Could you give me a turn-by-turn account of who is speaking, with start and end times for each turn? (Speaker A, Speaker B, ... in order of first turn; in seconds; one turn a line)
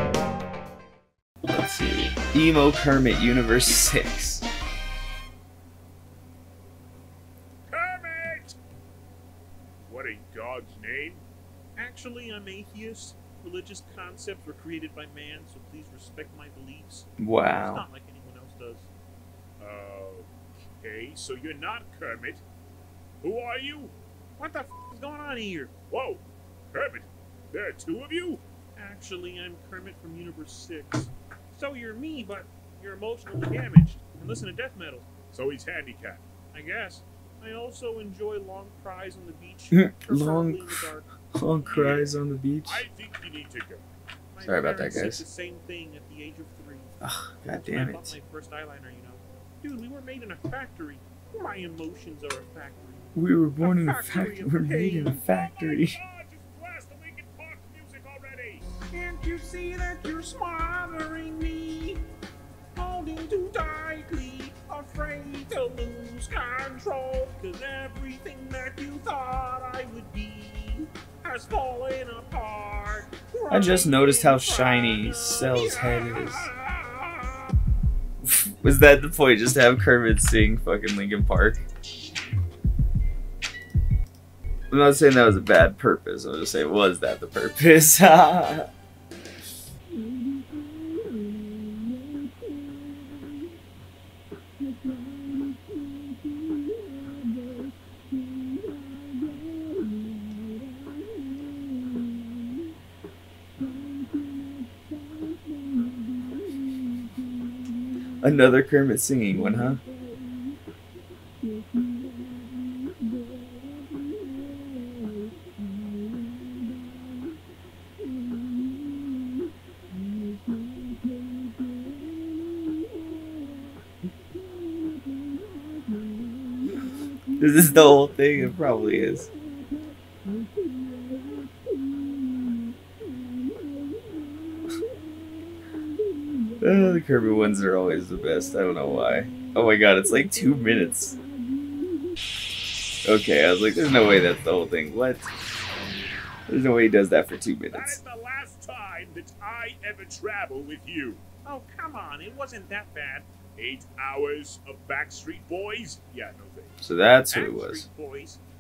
Speaker A: 1.4-4.5
Speaker B: 7.7-8.6
Speaker B: 9.8-11.2
Speaker C: 11.8-18.8
Speaker A: 17.2-17.9
Speaker B: 19.6-22.4
Speaker B: 23.2-23.9
Speaker C: 24.4-25.7
Speaker B: 25.9-28.4
Speaker C: 30.2-30.7
Speaker C: 31.5-35.0
Speaker B: 35.3-36.2
Speaker C: 36.5-39.6
Speaker A: 39.7-42.9
Speaker C: 40.4-41.0
Speaker B: 41.6-43.9
Speaker C: 44.4-46.9
Speaker A: 44.4-45.3
Speaker A: 47.0-48.2
Speaker C: 48.3-53.1
Speaker A: 53.1-56.0
Speaker C: 53.9-54.5
Speaker B: 54.6-58.6
Speaker C: 58.9-62.0
Speaker C: 62.8-75.1
Speaker A: 73.5-76.5
Speaker B: 75.6-76.7
Speaker A: 78.2-81.7
Speaker A: 84.7-88.7
Speaker A: 108.2-109.8
Speaker A: 127.4-129.3
Speaker A: 136.6-141.2
Speaker A: 143.1-145.3
Speaker A: 146.5-148.0
Speaker B: 147.7-151.2
Speaker C: 151.4-153.2
Speaker B: 153.6-156.8
Speaker A: 156.8-157.9
Speaker C: 157.3-158.4